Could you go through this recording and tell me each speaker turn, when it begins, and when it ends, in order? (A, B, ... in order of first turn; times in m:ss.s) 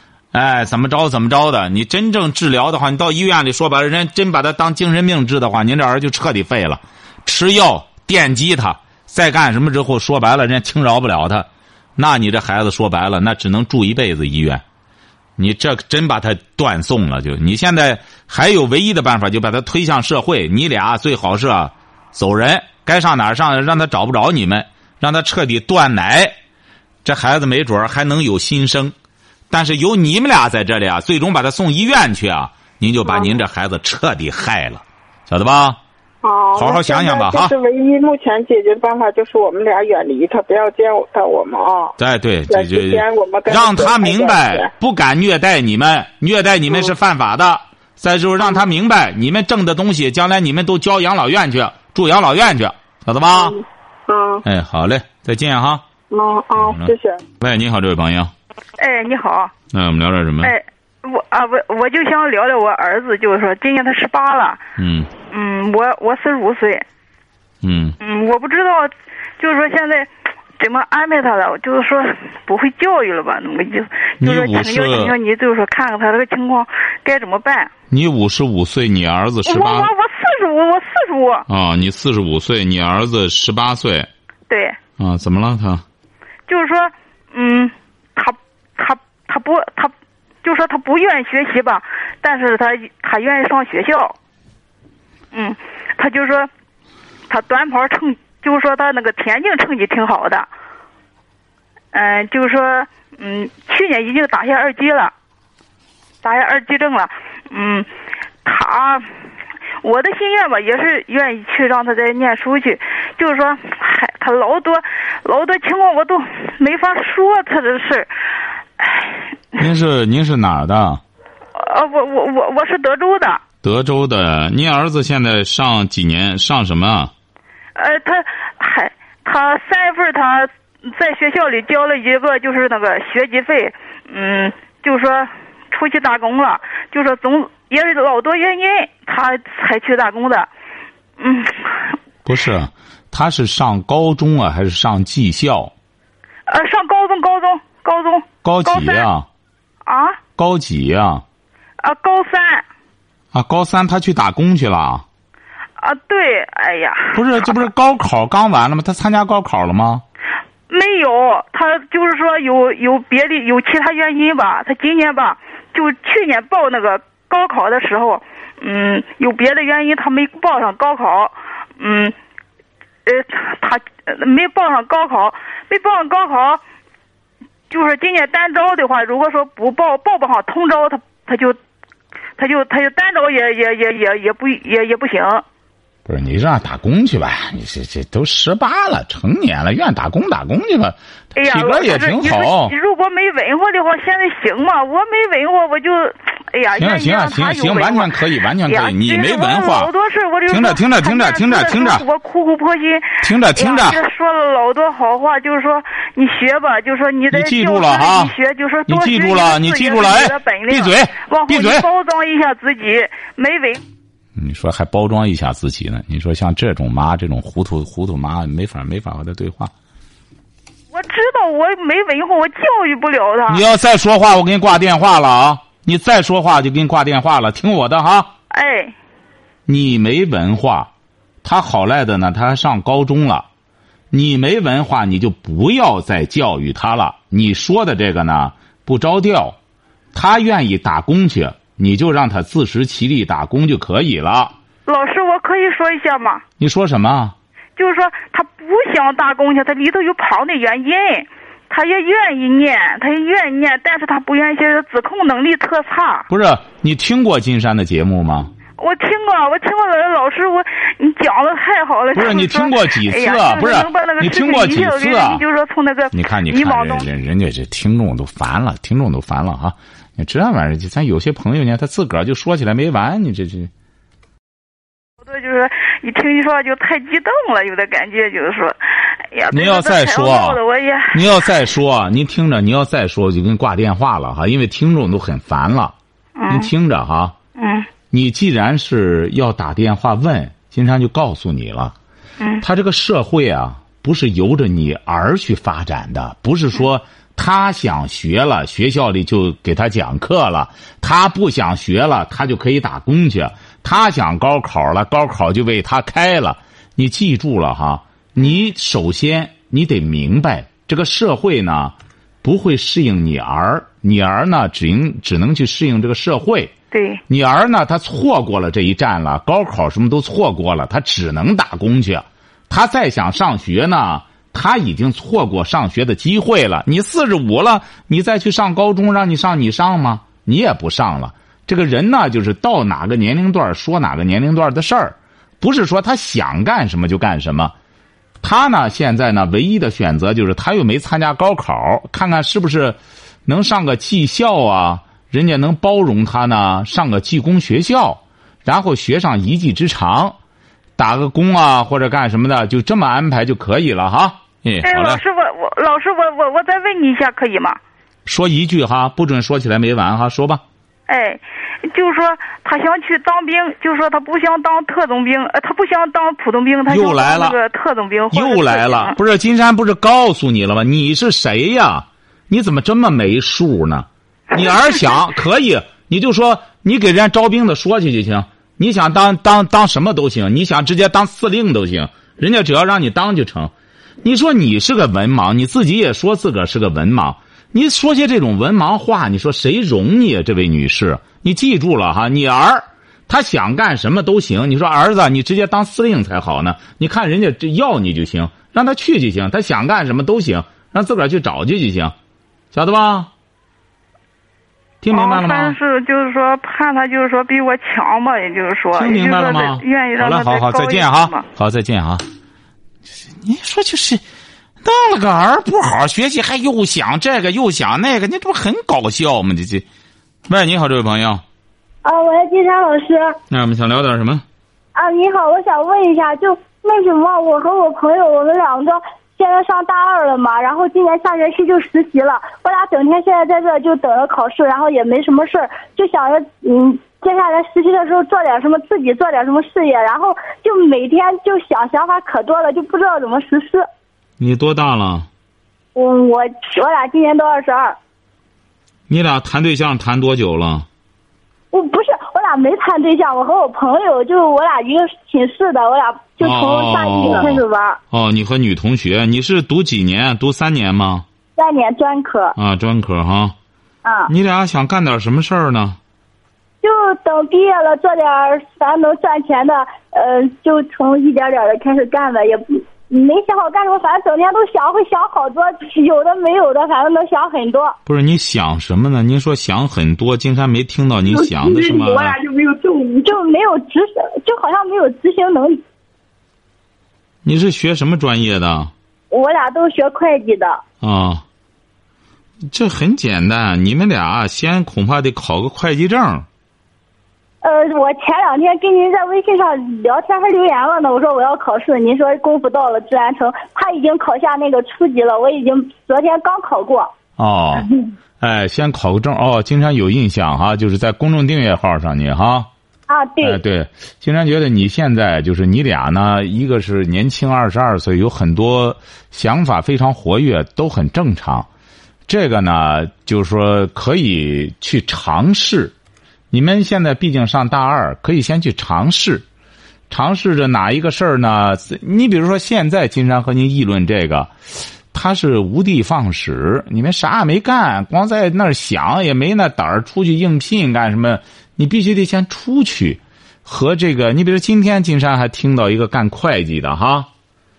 0:00.3-0:14.6 A
0:15.4-0:26.4 A
0:27.0-0:29.0 A
0:29.5-0:35.8 A
0:33.1-0:33.3 B
0:36.2-0:42.0 B
0:36.6-0:37.5 A
0:42.0-0:53.6 A
0:42.5-0:44.7 B
0:53.4-0:54.4 B
0:54.4-0:55.8 A
0:56.1-0:57.2 B
0:56.6-0:58.3 A
0:58.8-0:59.5 C
0:59.7-1:00.6 A
1:00.4-1:04.6 C
1:04.8-1:05.1 A
1:05.3-1:06.8 C
1:07.6-1:08.0 A
1:08.0-1:10.1 C
1:10.6-1:17.7 C
1:14.2-1:15.2 A
1:17.9-1:19.9 A
1:19.5-1:21.4 C
1:21.5-1:24.1 A
1:24.5-1:24.8 C
1:25.0-1:25.8 A
1:26.5-1:29.9 C
1:30.4-1:34.2 C
1:35.3-1:36.5 C
1:37.3-1:40.5 C
1:41.9-1:45.1 C
1:46.2-1:47.9 C
1:48.4-1:49.1 C
1:49.8-1:58.1 C
1:58.8-1:59.2 C
1:59.6-2:01.0 A
2:01.6-2:03.4 C
2:03.6-2:07.1 A
2:07.8-2:20.5 C
2:21.2-2:22.0 C
2:22.2-2:25.7 A
2:26.5-2:29.1 C
2:28.4-2:29.3 A
2:29.9-2:30.2 C
2:30.4-2:31.2 A
2:31.8-2:32.7 C
2:33.3-2:35.1 A
2:35.8-2:37.6 C
2:37.1-2:40.0 A
2:40.7-2:52.2 C
2:53.1-2:56.6 C
2:57.7-3:01.6 C
3:02.4-3:05.4 C
3:06.1-3:12.7 A
3:11.4-3:18.1 C
3:16.8-3:19.9 A
3:18.6-3:33.8 C
3:20.5-3:22.0 A
3:23.2-3:24.0 A
3:27.3-3:28.3 A
3:28.9-3:31.9 A
3:34.4-3:39.7 A
3:40.9-3:43.6 C
3:43.5-3:48.3 A
3:48.5-3:49.0 C
3:49.7-3:50.9 A
3:51.4-3:53.5 A
3:54.1-3:59.6 A
4:00.1-4:04.6 A
4:04.9-4:06.4 C
4:06.6-4:07.4 A
4:07.8-4:16.3 C
4:16.3-4:18.5 A
4:18.8-4:27.1 C
4:22.1-4:25.4 A
4:26.1-4:33.7 A
4:35.2-4:41.5 C
4:39.5-4:40.6 A
4:41.1-4:46.0 A
4:46.4-4:46.7 C
4:46.5-4:47.4 A
4:47.6-4:47.9 C
4:48.1-4:52.0 A
4:52.6-5:16.7 A
5:16.9-5:17.2 C
5:17.3-5:37.7 A
5:38.4-5:50.4 A
5:51.0-5:55.2 A
5:54.8-5:57.8 C
5:58.3-6:00.6 A
6:01.1-6:09.2 C
6:06.9-6:07.6 A
6:08.3-6:23.7 A
6:24.2-6:42.2 A
6:42.7-6:43.3 A
6:45.0-6:45.8 A
6:45.1-6:51.4 C
6:48.9-6:52.2 A
6:53.4-6:54.2 A
6:54.8-6:59.9 A
7:00.5-7:01.4 A
7:02.0-7:03.4 D
7:03.5-7:04.4 A
7:05.0-7:23.9 D
7:24.4-7:25.3 A
7:26.0-7:28.0 D
7:29.1-7:30.9 A
7:31.7-7:38.0 D
7:36.4-7:41.3 A
7:41.6-7:42.6 D
7:42.6-7:43.6 A
7:44.0-7:44.3 D
7:44.3-7:46.0 A
7:46.8-7:58.0 D
7:58.1-8:02.4 A
8:01.3-8:05.8 D
8:07.4-8:08.9 A
8:09.3-8:10.8 D
8:11.0-8:11.4 A
8:12.7-8:16.5 A
8:17.6-8:27.1 D
8:27.4-8:27.9 A
8:27.8-8:28.1 D
8:28.4-8:32.7 A
8:33.1-8:33.6 D
8:33.4-8:41.7 A
8:42.3-8:45.9 A
8:46.5-8:49.4 A
8:50.1-9:07.3 A